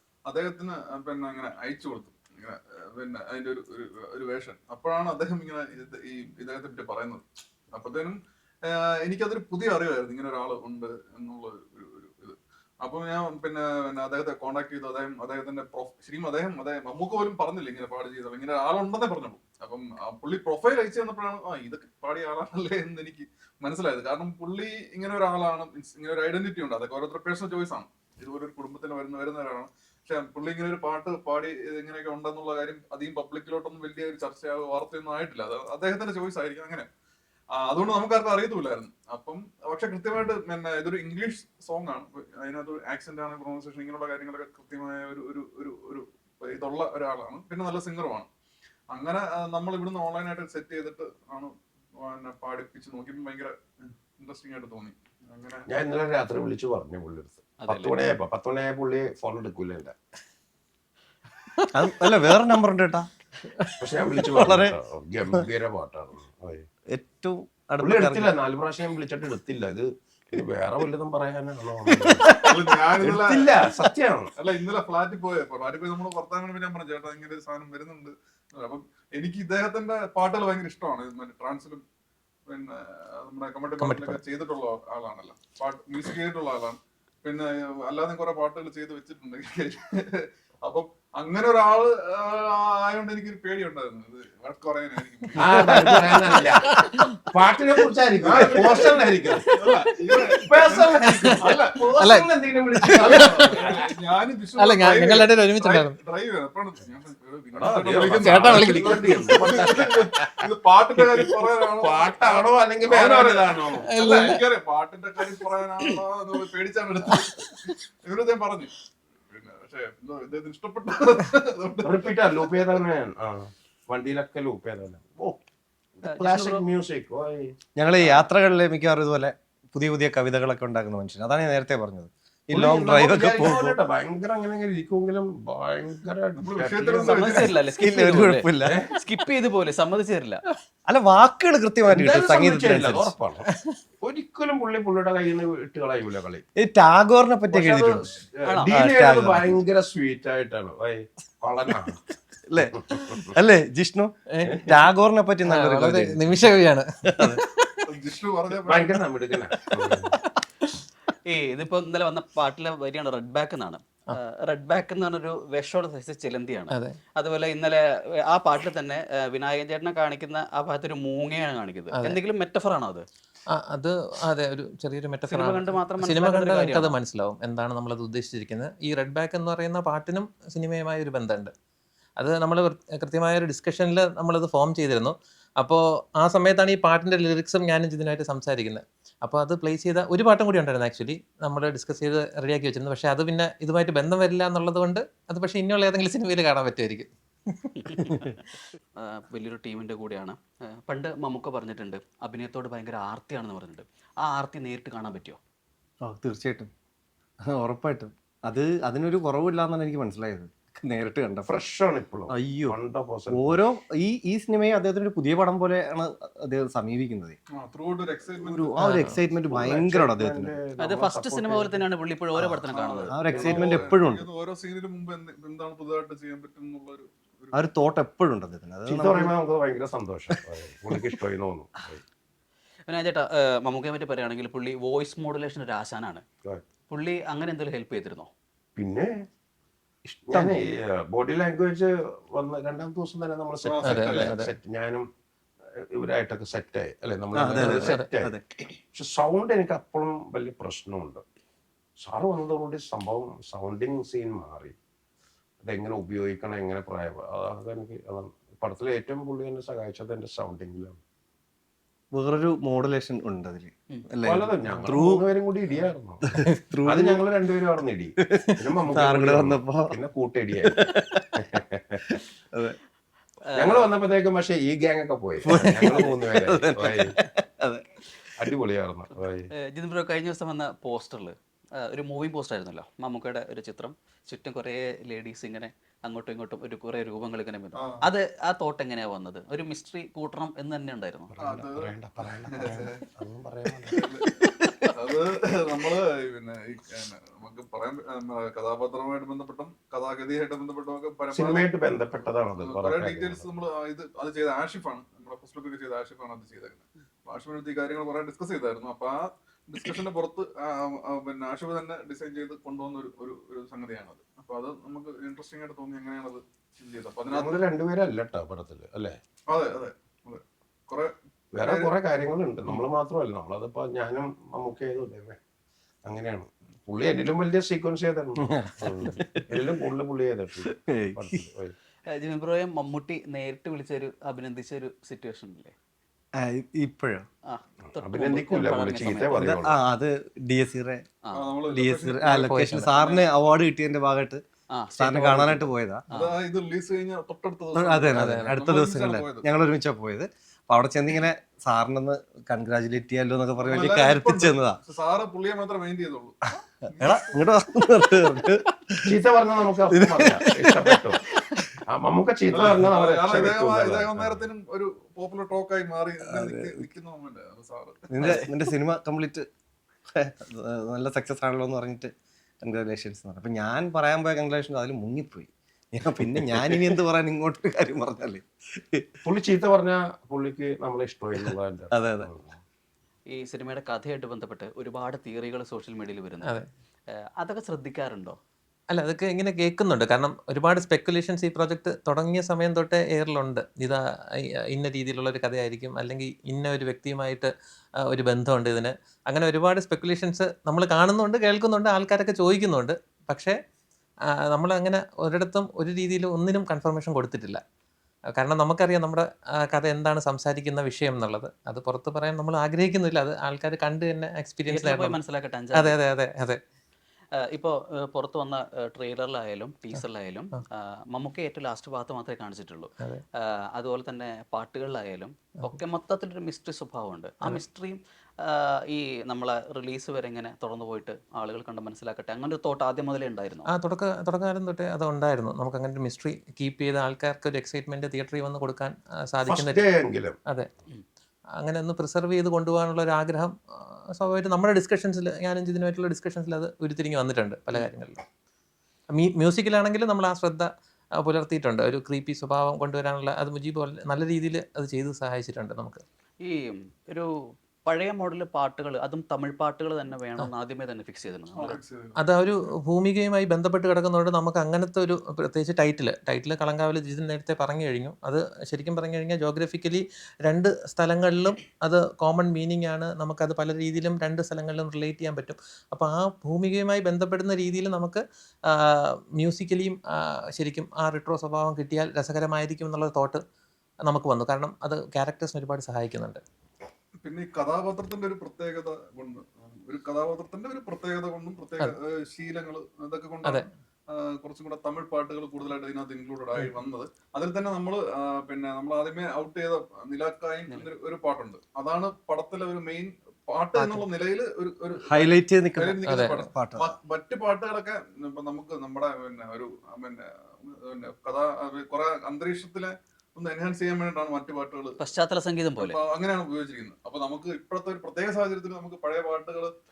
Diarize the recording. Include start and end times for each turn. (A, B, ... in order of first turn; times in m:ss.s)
0:00.3-0:36.9 A
0:37.6-0:48.3 A
0:48.9-0:55.7 A
0:55.7-1:00.0 B
0:57.6-0:58.0 C
1:01.7-1:03.1 D
1:03.8-1:06.7 B
1:04.0-1:04.8 D
1:06.9-1:08.3 D
1:07.8-1:14.3 B
1:11.9-1:12.7 D
1:12.3-1:13.6 A
1:14.4-1:21.8 A
1:22.5-1:35.5 A
1:23.8-1:24.2 E
1:35.4-1:43.9 B
1:35.5-1:37.2 E
1:35.6-1:36.4 D
1:38.2-1:42.0 A
1:42.0-1:43.6 E
1:42.9-1:58.8 A
1:44.6-1:46.0 E
1:47.6-1:50.5 B
1:48.0-1:49.6 E
1:51.0-1:53.9 B
1:53.9-1:54.4 E
1:57.2-1:57.8 E
1:59.3-2:02.8 A
2:01.8-2:05.4 B
2:06.0-2:07.6 B
2:06.0-2:06.6 C
2:07.8-2:13.8 D
2:12.5-2:17.5 B
2:16.4-2:17.6 A
2:17.1-2:20.4 C
2:17.6-2:18.8 D
2:18.6-2:18.9 B
2:20.9-2:23.1 D
2:21.9-2:23.5 B
2:24.0-2:26.4 B
2:26.6-2:29.6 D
2:27.5-2:32.0 B
2:28.4-2:28.7 C
2:32.5-2:36.5 D
2:32.6-2:33.3 B
2:34.3-2:34.8 E
2:34.4-2:34.8 B
2:35.4-2:37.9 E
2:37.1-2:37.4 D
2:37.9-2:39.0 A
2:38.7-2:40.2 B
2:40.6-2:40.9 E
2:41.2-2:53.1 C
2:46.7-2:47.0 E
2:51.9-2:52.2 E
2:53.5-3:01.5 E
2:55.3-2:57.0 C
3:02.2-3:18.2 E
3:17.8-3:18.3 C
3:19.0-3:25.4 C
3:26.0-3:26.7 D
3:27.5-3:31.6 D
3:31.5-3:33.6 B
3:32.3-3:32.8 D
3:33.3-3:37.4 D
3:37.6-3:39.1 A
3:38.4-3:40.6 D
3:38.8-3:39.2 E
3:39.4-3:44.0 B
3:40.8-3:43.2 C
3:42.7-3:47.6 A
3:43.1-3:44.3 D
3:47.5-3:49.3 D
3:48.9-3:52.0 B
3:50.3-3:51.1 D
3:52.9-3:56.2 C
3:56.9-3:58.3 C
3:58.8-3:59.2 B
4:00.1-4:00.6 D
4:00.3-4:05.1 B
4:03.6-4:04.4 A
4:03.8-4:04.5 E
4:05.8-4:11.2 B
4:07.4-4:08.4 D
4:07.6-4:08.1 E
4:12.0-4:14.8 B
4:15.6-4:21.0 B
4:22.2-4:25.2 D
4:24.2-4:32.2 B
4:26.3-4:27.3 D
4:28.2-4:30.0 D
4:30.7-4:31.5 D
4:32.1-4:32.8 D
4:33.5-4:33.9 C
4:33.6-4:37.1 B
4:35.5-4:38.4 D
4:38.4-4:39.5 B
4:39.6-4:51.3 C
4:47.8-4:48.1 A
4:51.3-4:54.0 B
4:51.4-4:53.0 A
4:53.9-4:55.0 D
4:53.9-5:01.7 A
5:01.3-5:03.5 B
5:02.6-5:17.6 A
5:17.3-5:19.2 B
5:19.5-5:21.9 A
5:21.5-5:25.4 B
5:26.1-5:31.8 B
5:28.4-5:29.8 D
5:30.6-5:31.4 D
5:32.1-5:35.8 C
5:36.4-5:37.3 D
5:37.4-5:39.4 C
5:37.9-5:39.8 B
5:39.4-5:41.0 D
5:41.2-5:41.5 C
5:41.3-5:43.3 A
5:41.7-5:44.4 D
5:42.4-5:43.0 E
5:44.7-5:46.4 C
5:45.0-5:46.0 D
5:46.1-5:49.5 A
5:47.8-5:54.8 D
5:48.1-5:48.6 E
5:53.6-5:57.3 A
5:57.0-5:59.2 D
5:59.0-6:01.2 B
5:59.9-6:01.8 D
6:01.9-6:04.5 B
6:02.5-6:08.5 A
6:06.3-6:06.9 D
6:08.1-6:09.5 D
6:08.2-6:08.5 C
6:10.2-6:12.1 D
6:12.6-6:19.1 D
6:16.3-6:17.0 B
6:19.2-6:22.6 B
6:21.4-6:22.3 D
6:23.3-6:26.5 C
6:27.1-6:28.4 C
6:28.9-6:34.0 E
6:34.7-6:37.5 E
6:38.1-6:43.6 E
6:44.5-6:47.6 E
6:48.3-6:55.2 E
6:54.7-6:56.0 C
6:55.7-6:56.6 E
6:57.4-7:13.7 C
7:13.7-7:19.8 E
7:19.5-7:20.4 B
7:21.6-7:28.2 E
7:29.1-7:36.0 E
7:36.4-7:41.8 C
7:41.6-7:42.2 A
7:42.2-8:03.4 E
8:04.0-8:06.4 E
8:07.2-8:35.0 A
8:23.8-8:24.1 E
8:25.0-8:27.0 D
8:26.1-8:26.5 E
8:35.0-8:36.0 C
8:35.8-8:39.7 A